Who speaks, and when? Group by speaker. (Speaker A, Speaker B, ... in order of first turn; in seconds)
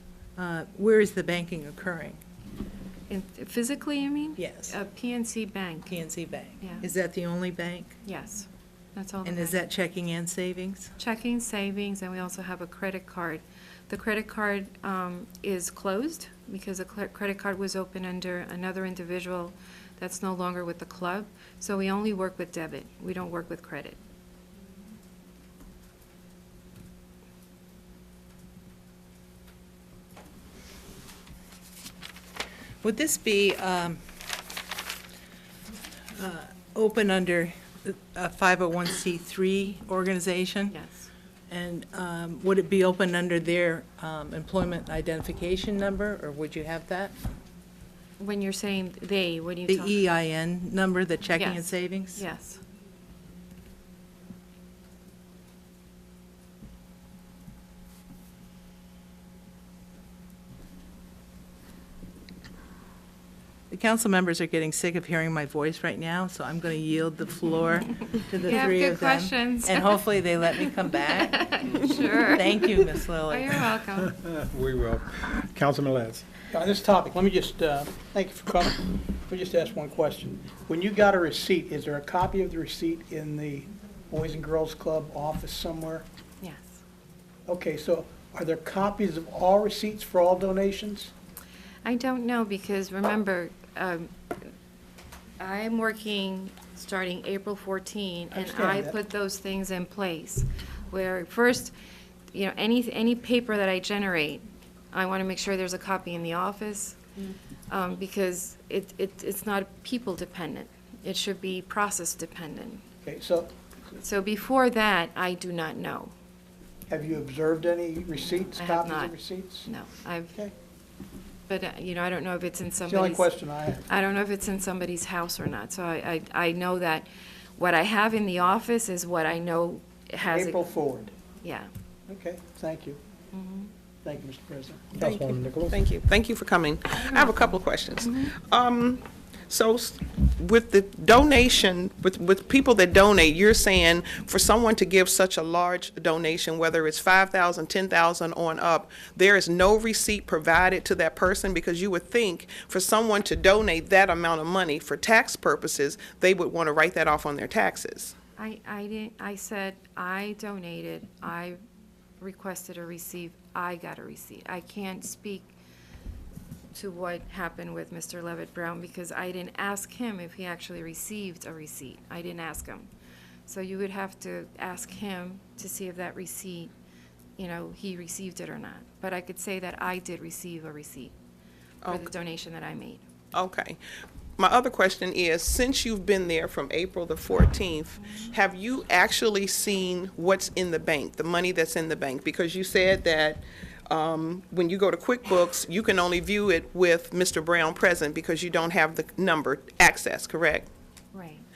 Speaker A: 0.4-2.2, 4.4-4.8, 5.9-8.0, 9.2-10.9, 32.8-34.0, 36.1-40.8, 41.5-47.1, 49.7-52.2, 63.7-73.7
Speaker B: 3.1-5.9, 6.6-6.8, 8.0-9.6, 11.0-24.0, 40.7-41.1, 48.2-50.0, 51.4-52.6, 68.4-70.0, 71.1-74.2, 86.4-86.8, 91.8-94.3, 95.4-101.7, 102.3-107.0, 107.7-112.8, 114.0-116.1, 118.5-120.3, 121.5-123.3, 123.9-130.6, 131.4-131.7, 133.3-133.7, 137.0-137.5, 138.0-138.3, 158.4-161.6, 162.2-165.5, 166.7-172.9, 173.4-176.7, 177.4-181.1, 181.8-183.0, 188.0-188.3, 201.1-201.5
Speaker C: 74.2-76.2, 135.0-135.7
Speaker D: 76.5-86.0, 87.5-91.1, 98.3-99.0, 113.0-113.5, 116.9-119.7, 122.8-123.9, 130.2-131.1, 132.1-133.0, 134.0-135.3
Speaker E: 135.0-158.2, 181.8-182.1, 183.3-183.8, 184.4-200.7